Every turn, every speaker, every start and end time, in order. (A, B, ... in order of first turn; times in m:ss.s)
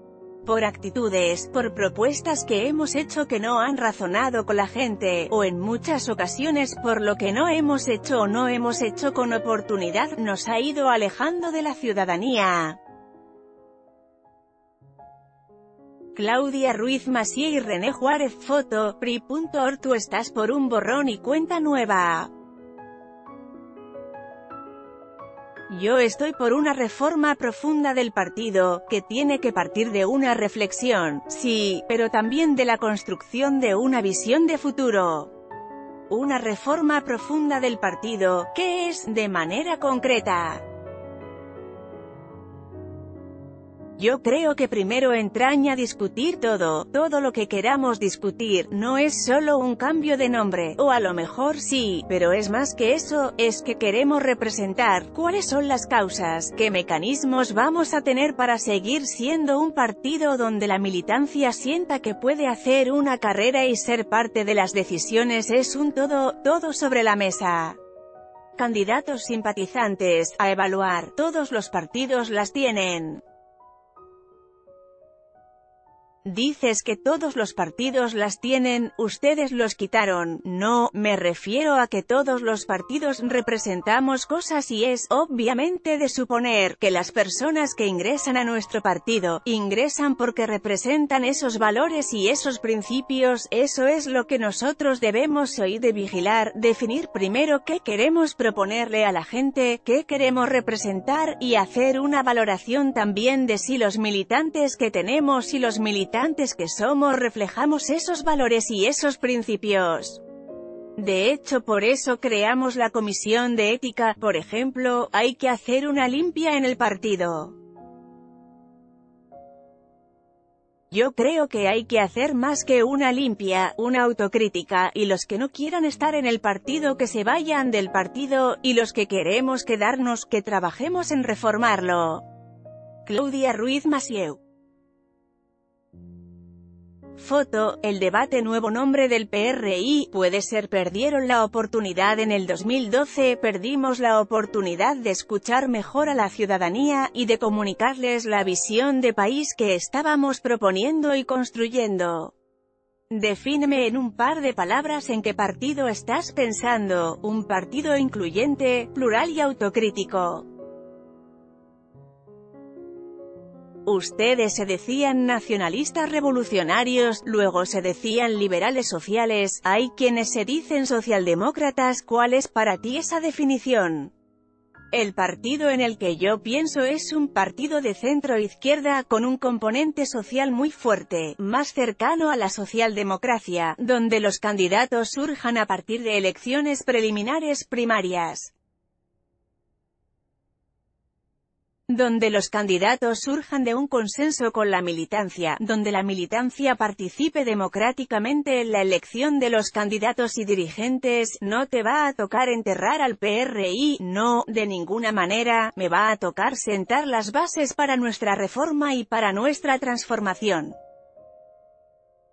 0:00.4-0:12.8 A
0:16.2-0:22.3 A
0:25.7-0:35.3 A
0:36.1-0:40.6 A
0:44.0-1:07.8 A
1:08.6-1:13.2 A
1:16.2-1:50.2 A
1:51.0-1:57.6 A
2:00.9-2:12.2 A
2:13.0-2:14.4 A
2:17.2-2:32.4 A
2:33.1-2:40.5 A
2:43.8-2:54.1 A
2:54.9-3:08.5 A
3:11.9-3:30.8 A